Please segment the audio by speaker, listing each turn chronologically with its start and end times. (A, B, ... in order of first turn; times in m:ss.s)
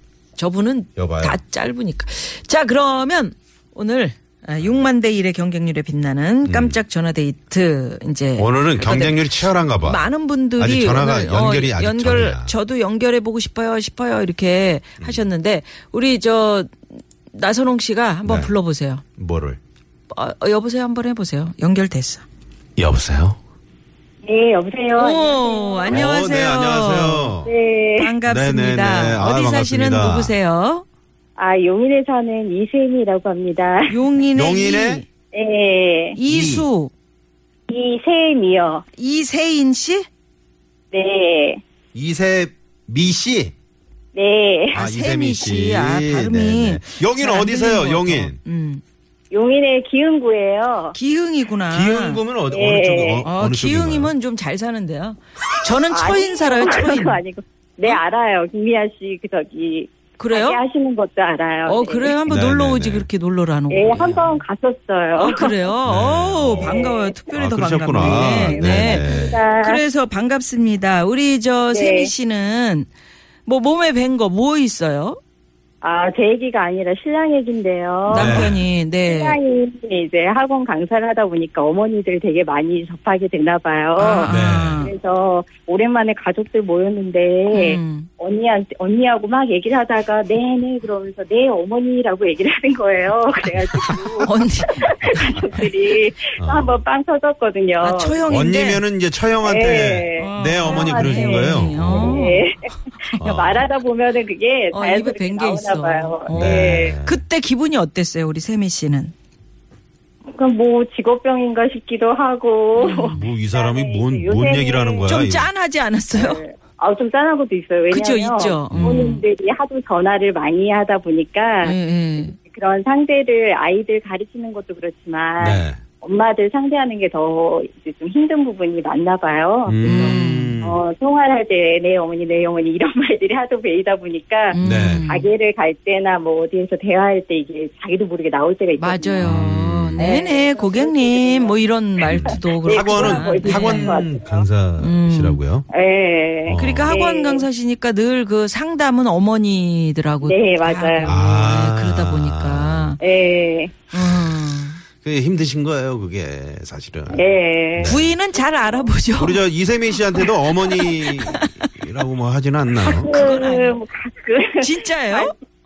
0:00.4-0:16.7 A
0:01.0-0:01.4 B
0:06.4-0:06.8 B
0:08.4-0:12.6 B
0:15.0-0:15.3 B
0:17.3-0:19.0 A
0:18.2-0:18.5 B
0:19.2-0:19.6 B
0:20.1-0:22.2 A
0:22.8-0:23.4 B
0:24.2-0:26.1 C
0:25.0-0:27.4 A
0:25.9-0:27.5 B
0:27.4-0:28.2 C
0:28.0-0:30.8 A
0:28.2-0:30.3 B
0:31.4-0:34.0 C
0:33.9-0:35.0 A
0:34.3-0:35.0 B
0:35.3-0:36.2 C
0:36.1-0:36.9 A
0:36.2-0:36.7 B
0:37.7-0:38.8 C
0:38.9-0:40.1 A
0:40.9-0:41.6 C
0:41.9-0:43.5 B
0:44.1-0:44.8 C
0:44.7-0:48.4 B
0:44.7-0:48.8 A
0:49.3-0:50.9 C
0:50.9-0:52.2 A
0:51.7-0:54.1 B
0:52.5-0:53.3 C
0:53.2-0:57.2 A
0:55.9-1:02.2 C
1:00.2-1:00.6 A
1:01.6-1:04.4 A
1:02.2-1:03.0 B
1:03.7-1:05.7 C
1:05.2-1:09.1 A
1:05.8-1:09.4 B
1:06.4-1:07.1 C
1:07.9-1:09.8 C
1:09.6-1:12.9 A
1:11.7-1:12.1 C
1:13.4-1:15.2 A
1:15.8-1:18.5 C
1:18.1-1:19.4 A
1:18.1-1:18.6 B
1:19.0-1:24.3 C
1:24.0-1:24.9 A
1:24.2-1:24.9 B
1:24.8-1:38.2 C
1:27.5-1:28.1 A
1:34.2-1:35.7 A
1:36.4-1:36.7 B
1:37.8-1:38.8 A
1:38.3-1:42.2 B
1:39.4-1:46.9 C
1:40.2-1:42.5 A
1:43.2-1:43.6 B
1:44.7-1:49.1 A
1:46.3-1:47.2 B
1:50.3-1:55.1 C
1:52.8-1:53.3 A
1:53.1-1:55.5 B
1:55.0-1:56.4 A
1:56.1-2:19.4 C
1:57.9-1:59.2 A
1:58.7-1:59.1 B
2:01.6-2:02.3 A
2:05.4-2:05.8 B
2:09.6-2:10.8 B
2:09.8-2:10.6 A
2:14.5-2:15.2 A
2:14.6-2:15.1 B
2:18.8-2:24.0 A
2:19.2-2:20.2 B
2:20.0-2:21.6 C
2:22.0-2:25.7 B
2:22.3-2:24.4 C
2:24.8-2:25.4 A
2:25.7-2:27.4 C
2:26.4-2:26.9 B
2:26.5-2:33.0 A
2:30.2-2:31.2 C
2:31.0-2:32.9 B
2:33.0-2:33.8 C
2:33.9-2:34.8 A
2:33.9-2:37.2 B
2:37.1-2:38.9 C
2:37.8-2:38.1 B
2:37.8-2:39.4 A
2:39.2-2:43.1 B
2:40.2-2:41.5 A
2:42.8-2:45.3 C
2:42.9-2:43.8 A
2:44.6-2:45.3 A